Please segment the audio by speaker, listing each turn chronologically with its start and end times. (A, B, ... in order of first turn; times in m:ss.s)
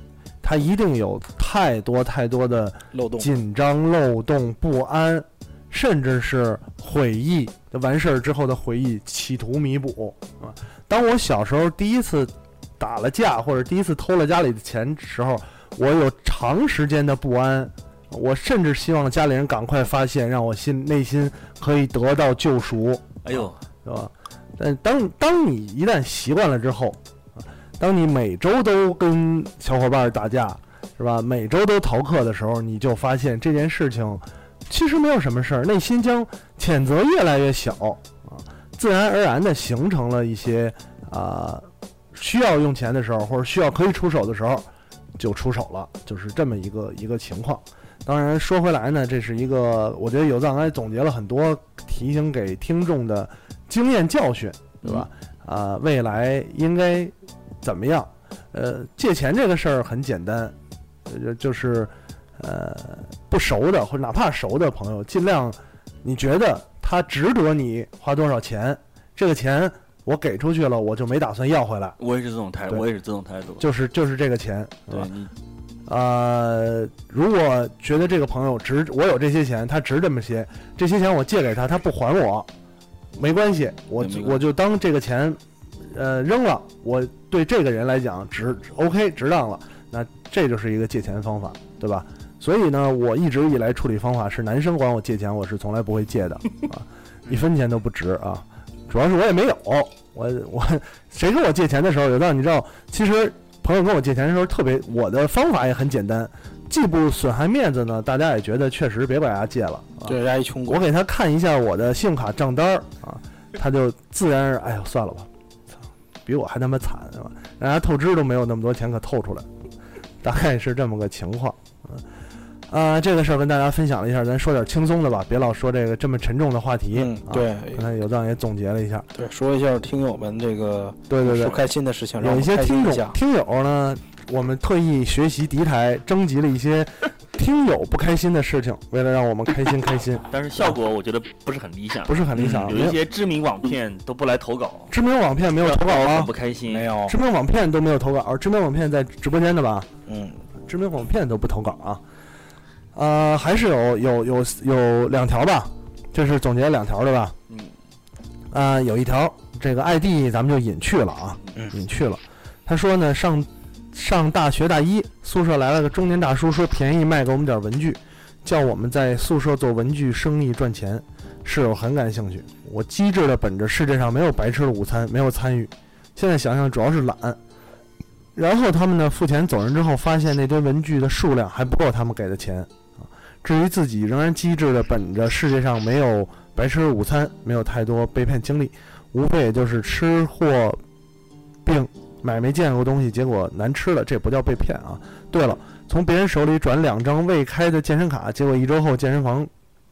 0:00.4-1:00.6 A
0:02.9-0:03.3 B
0:23.2-0:23.6 C
1:01.1-1:12.0 A
1:12.0-1:13.7 C
1:13.6-1:15.1 A
1:14.9-1:15.3 C
1:15.9-1:22.5 A
1:23.2-1:55.3 A
1:24.0-1:24.4 C
1:50.0-1:50.8 B
1:56.2-1:59.5 A
2:00.2-2:02.0 A
2:02.7-2:09.1 A
2:06.9-2:07.8 B
2:09.2-2:13.2 B
2:11.1-2:11.6 A
2:12.2-2:20.2 A
2:20.3-2:24.9 C
2:22.1-2:23.0 A
2:22.4-2:22.7 B
2:24.9-2:26.3 A
2:25.6-2:26.9 C
2:26.7-2:27.2 B
2:27.1-2:29.9 A
2:30.1-2:30.4 B
2:30.6-2:32.0 A
2:32.9-2:37.4 A
2:38.5-2:57.4 A
2:58.4-3:10.8 A
3:11.6-3:19.5 A